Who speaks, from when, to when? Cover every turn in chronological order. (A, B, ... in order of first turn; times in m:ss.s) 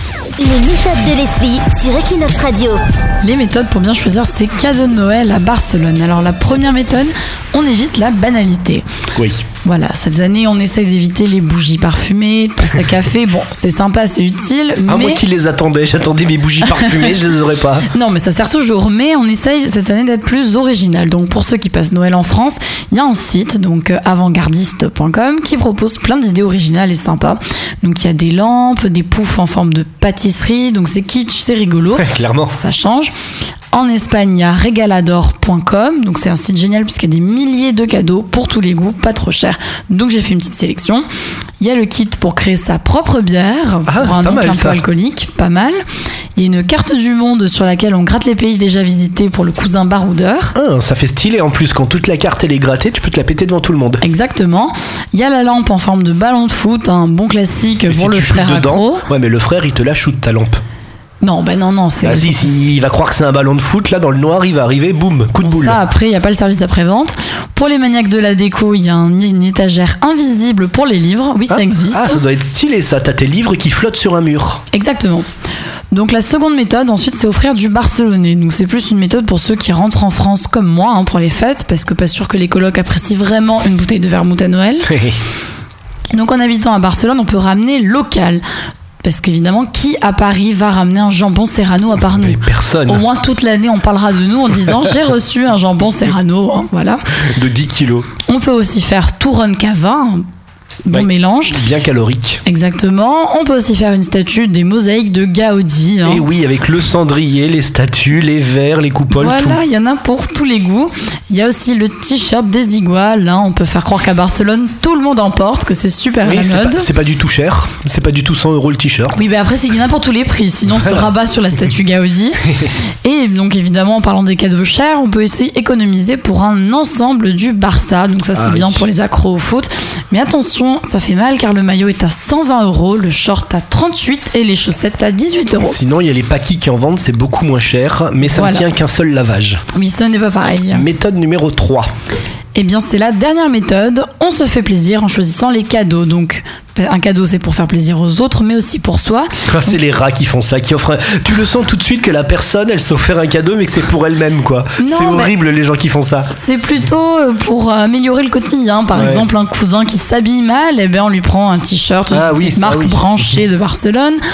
0:00.4-0:02.8 A
0:03.2-0:08.9 B
0:09.2-0:09.5 C
0:09.6-0:15.2 B
0:14.9-0:17.9 C
0:16.7-0:17.2 B
0:17.9-0:33.1 B
0:32.0-0:32.6 C
0:33.7-0:41.0 B
0:41.6-0:45.8 B
0:43.9-0:44.8 C
0:46.4-0:50.6 B
0:50.6-0:54.0 C
0:54.0-0:59.0 B
0:57.9-1:00.6 C
1:01.2-1:02.7 B
1:02.0-1:05.8 C
1:05.4-1:12.2 B
1:11.5-1:14.6 C
1:14.7-1:15.3 B
1:15.9-1:25.1 B
1:26.1-1:28.4 B
1:29.0-1:37.0 B
1:32.1-1:33.0 C
1:37.3-1:38.1 C
1:38.3-1:40.2 B
1:40.8-1:41.7 B
1:40.9-1:42.4 C
1:42.4-1:46.3 B
1:46.0-1:49.6 C
1:49.1-1:56.9 B
1:56.2-1:59.2 C
1:59.1-2:02.5 B
2:00.7-2:01.1 C
2:03.0-2:15.8 B
2:08.3-2:08.9 C
2:15.6-2:19.6 C
2:18.2-2:18.7 B
2:19.7-2:20.9 B
2:20.7-2:21.9 C
2:22.5-2:29.8 B
2:29.5-2:36.3 C
2:34.8-2:35.3 B
2:36.3-2:44.2 B
2:39.0-2:39.3 C
2:42.1-2:43.4 C